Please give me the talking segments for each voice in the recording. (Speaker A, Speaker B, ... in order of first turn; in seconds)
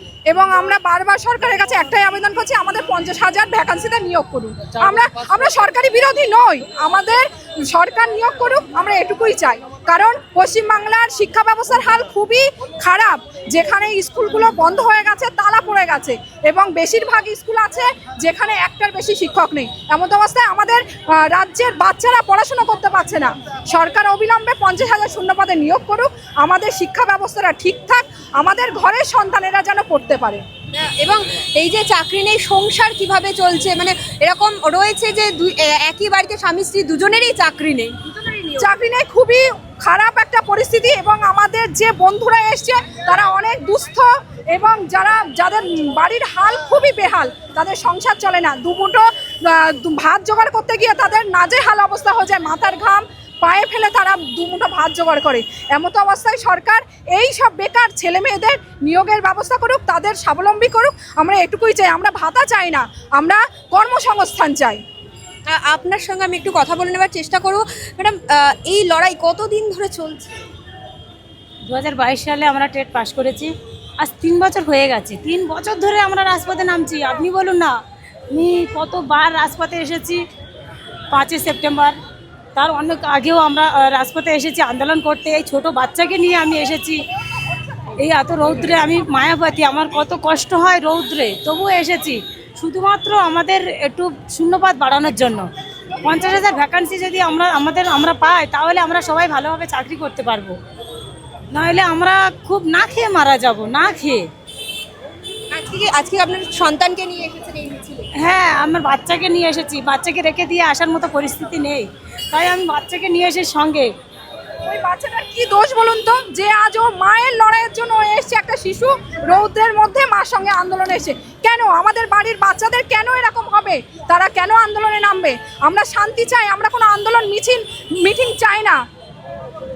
Speaker A: 0.3-30.4, 38.6-64.8, 114.7-128.8
Speaker B: 30.7-38.6, 65.5-70.3, 105.5-108.1
Speaker C: 71.7-77.7, 78.3-80.2, 81.1-82.0, 82.5-87.0, 88.0-100.6, 101.5-104.3, 108.2-113.9